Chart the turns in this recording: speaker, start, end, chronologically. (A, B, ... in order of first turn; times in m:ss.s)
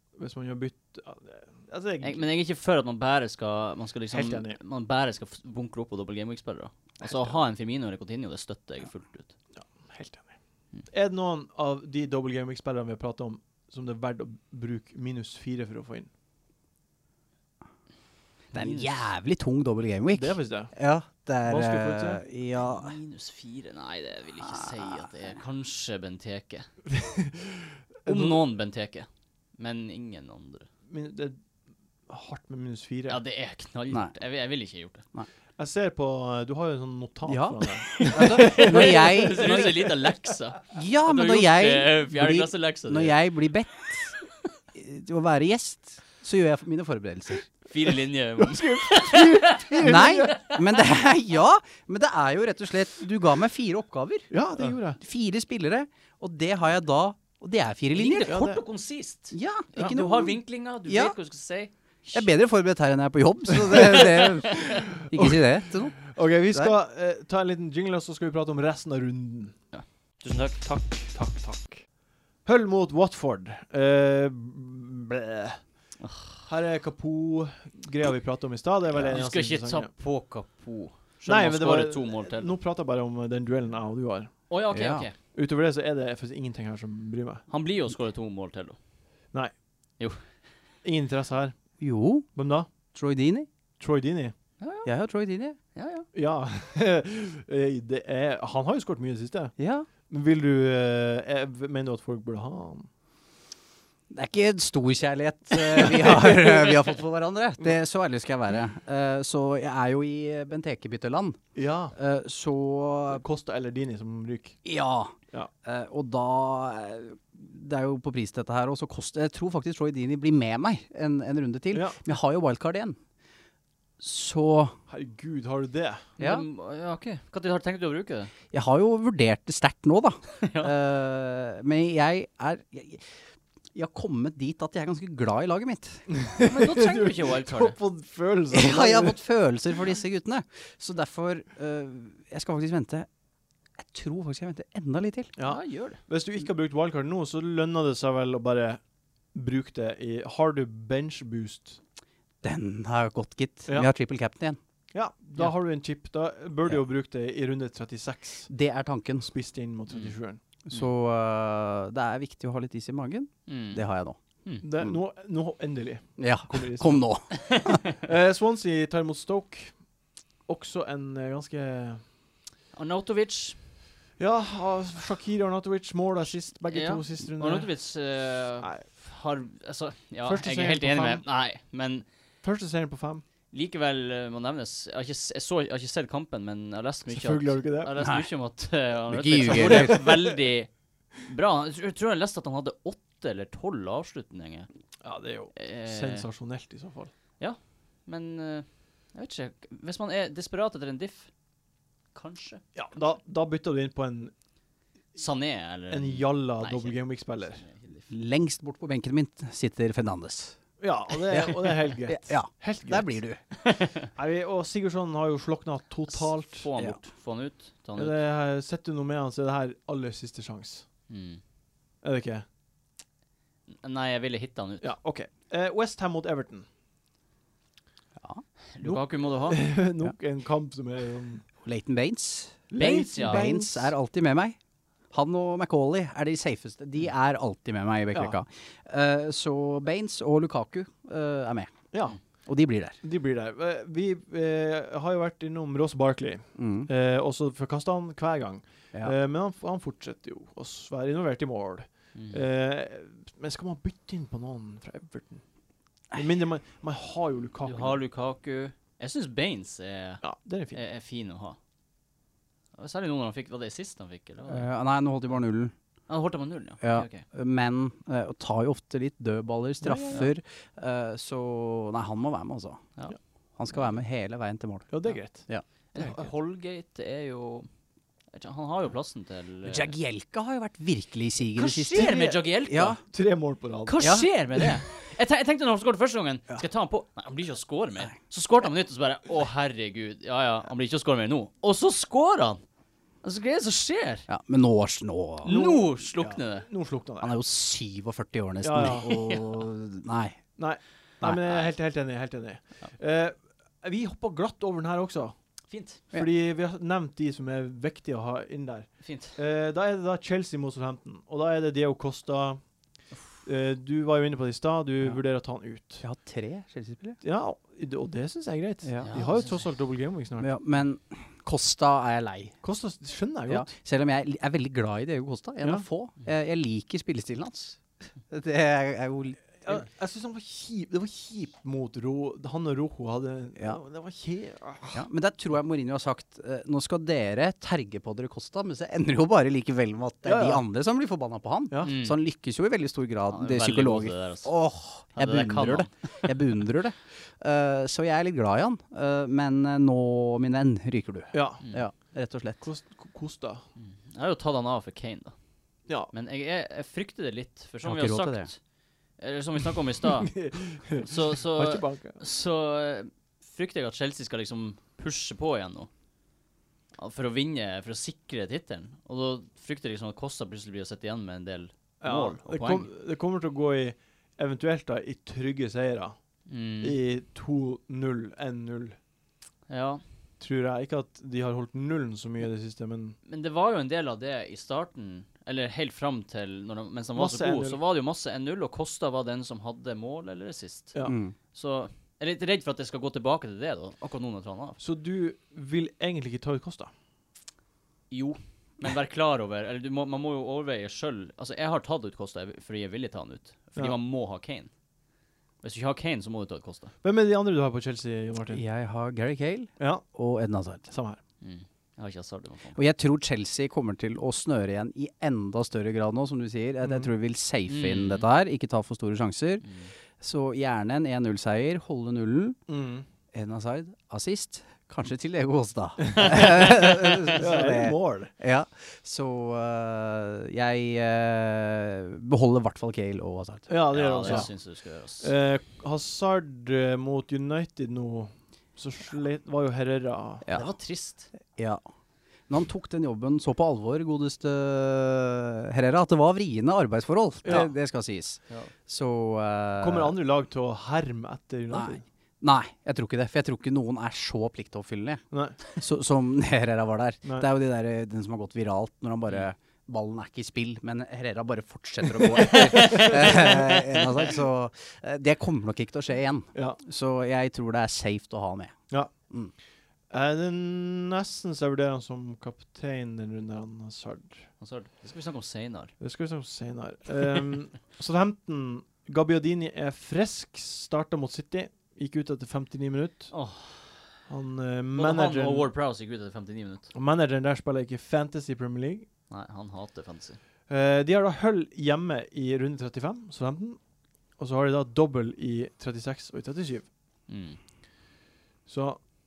0:00.2-0:02.2 A
0:02.0-0:09.3 B
0:04.1-0:04.6 A
0:07.0-0:07.4 A
0:09.5-0:10.3 A
0:10.9-0:16.1 A
0:18.5-0:18.9 B
0:18.5-0:23.0 C
0:20.1-0:20.7 A
0:21.4-0:22.2 A
0:22.6-0:26.7 B
0:24.4-0:25.1 C
0:26.9-0:28.4 A
0:28.0-0:30.7 B
0:30.9-0:31.4 A
0:32.1-0:33.2 A
0:33.1-0:35.0 B
0:35.6-0:40.1 A
0:37.2-0:39.7 C
0:38.1-0:43.2 B
0:40.7-0:44.2 C
0:44.7-0:47.5 C
0:47.7-0:50.6 B
0:48.4-0:50.6 A
0:49.8-0:58.6 C
0:54.3-0:55.0 A
0:57.9-1:02.3 B
0:58.2-0:58.6 A
0:59.3-1:01.1 C
1:02.1-1:06.7 C
1:03.5-1:05.5 A
1:06.0-1:09.6 A
1:09.7-1:10.7 B
1:10.6-1:11.8 A
1:12.4-1:15.6 A
1:16.0-1:16.4 B
1:16.4-1:19.9 A
1:18.9-1:22.5 B
1:21.2-1:24.4 A
1:24.5-1:25.1 B
1:24.7-1:25.1 C
1:25.3-1:27.4 A
1:27.5-1:28.8 B
1:30.8-1:31.5 A
1:31.8-1:32.3 C
1:32.4-1:32.7 A
1:32.9-1:33.5 C
1:33.8-1:34.3 A
1:34.6-1:34.9 B
1:34.8-1:35.6 C
1:35.7-1:36.1 B
1:36.1-1:39.5 A
1:39.6-1:39.9 C
1:40.1-1:42.9 A
1:44.1-1:51.4 C
1:45.6-1:46.9 A
1:51.5-1:51.9 A
1:51.9-1:53.2 C
1:53.1-1:54.6 A
1:54.6-2:03.0 C
2:01.7-2:02.0 A
2:04.0-2:04.8 C
2:04.9-2:06.0 A
2:06.2-2:06.4 C
2:06.2-2:08.3 B
2:08.5-2:13.1 C
2:10.4-2:10.7 B
2:13.7-2:16.0 C
2:16.1-2:19.2 A
2:16.4-2:17.8 B
2:18.5-2:23.1 C
2:23.8-2:25.3 C
2:25.4-2:28.8 A
2:25.4-2:26.0 B
2:29.3-2:31.8 A
2:32.4-2:34.6 C
2:34.9-2:38.5 A
2:38.5-2:39.3 C
2:39.3-2:40.4 A
2:40.7-2:44.2 C
2:43.5-2:43.8 B
2:44.6-2:47.1 A
2:46.2-2:47.8 C
2:47.3-2:47.9 B
2:48.0-2:49.8 A
2:50.5-2:52.0 A
2:52.7-2:53.6 B
2:54.2-2:57.7 A
2:56.7-3:02.0 B
2:58.6-2:58.8 A
3:00.2-3:01.2 A
3:02.4-3:03.2 A
3:03.5-3:10.7 B
3:07.1-3:07.9 A
3:08.0-3:08.3 C
3:09.1-3:10.0 C
3:09.4-3:10.3 A
3:11.2-3:14.7 B
3:15.0-3:17.1 A
3:15.6-3:16.2 B
3:17.4-3:21.3 B
3:22.1-3:22.6 B
3:22.7-3:24.3 A
3:25.2-3:28.1 B
3:25.9-3:27.6 A
3:28.1-3:30.6 C
3:30.8-3:33.1 A
3:31.3-3:33.4 C
3:33.6-3:34.1 B
3:34.1-3:36.7 A
3:36.1-3:38.2 B
3:38.0-3:40.8 A
3:41.1-3:41.4 B
3:42.0-3:42.4 A
3:43.7-3:44.9 B
3:44.8-3:46.6 A
3:48.7-3:49.6 B
3:48.8-3:51.4 A
3:51.6-3:54.6 C
3:52.7-3:53.9 A
3:52.8-3:53.5 B
3:55.1-4:01.8 C
4:01.9-4:02.2 A
4:02.4-4:03.0 C
4:03.0-4:15.4 A
4:06.6-4:06.9 C
4:12.1-4:12.4 B
4:16.1-4:18.0 A
4:17.6-4:21.6 B
4:20.2-4:20.8 A
4:22.7-4:24.7 B
4:24.5-4:25.7 C
4:26.1-4:27.2 B
4:26.8-4:32.8 C
4:29.8-4:30.3 A
4:33.6-4:35.6 C
4:34.9-4:36.2 A
4:35.9-4:37.7 B
4:38.3-4:39.9 B
4:39.6-4:43.0 C
4:41.6-4:43.0 B
4:41.9-4:42.5 A
4:43.0-4:44.3 A
4:43.8-4:52.6 B
4:44.0-4:44.3 C
4:53.2-4:54.3 B
4:54.3-4:55.6 C
4:55.4-4:56.7 B
4:55.4-4:57.3 A
4:57.2-5:00.4 C
4:58.6-4:59.1 A
4:58.8-4:59.6 B
5:00.6-5:05.3 A
5:05.7-5:06.0 B
5:06.1-5:12.6 A
5:09.0-5:09.4 B
5:13.4-5:16.0 A
5:16.0-5:17.2 C
5:17.2-5:20.5 A
5:18.8-5:19.1 C
5:19.0-5:19.6 B
5:20.4-5:22.6 C
5:22.6-5:23.7 A
5:23.5-5:29.8 C
5:29.6-5:35.0 A
5:34.9-5:52.6 C
5:40.2-5:40.6 A
5:41.7-5:41.9 A
5:41.8-5:42.2 B
5:43.3-5:44.5 B
5:45.1-5:46.3 B
5:51.3-5:51.6 A
5:52.6-5:53.6 A
5:53.8-5:55.3 B
5:56.1-5:58.6 B
5:57.8-5:58.5 C
5:59.2-6:00.4 B
6:00.2-6:02.2 A
6:00.9-6:05.9 B
6:07.0-6:12.9 B
6:12.0-6:16.2 A
6:16.5-6:17.0 B
6:16.8-6:19.0 A
6:19.7-6:20.0 B
6:20.4-6:23.2 A
6:23.2-6:31.0 B
6:27.2-6:27.8 A
6:31.0-6:31.3 C
6:31.5-6:34.8 B
6:34.8-6:36.9 A
6:38.1-6:44.7 B
6:45.6-6:46.9 B
6:47.0-6:48.6 A
6:48.5-6:50.8 C
6:49.8-6:50.0 A
6:50.9-6:51.2 A
6:51.4-6:52.8 B
6:52.7-6:59.6 C
6:56.8-6:57.1 A
6:57.7-6:58.3 B
6:59.6-6:59.9 B
7:00.2-7:02.6 C
7:02.7-7:03.0 A
7:03.3-7:14.5 C
7:06.0-7:06.3 A
7:07.3-7:08.3 A
7:13.7-7:14.6 A
7:13.9-7:15.3 B
7:15.2-7:20.4 A
7:20.4-7:20.7 C
7:20.5-7:21.3 B
7:21.5-7:21.8 C
7:22.5-7:30.2 C
7:27.4-7:27.7 A
7:29.8-7:32.0 A
7:31.7-7:35.2 C
7:35.3-7:35.6 A
7:35.8-7:48.8 C
7:37.2-7:37.5 A
7:42.7-7:43.5 B
7:50.1-7:54.5 A
7:54.6-7:55.9 B
7:56.0-8:03.3 A
8:03.3-8:04.1 B
8:04.3-8:05.7 A
8:05.0-8:06.9 B
8:06.9-8:09.1 A
8:09.3-8:10.4 B
8:10.7-8:13.8 A
8:14.4-8:16.8 A
8:17.3-8:17.6 B
8:18.6-8:19.0 A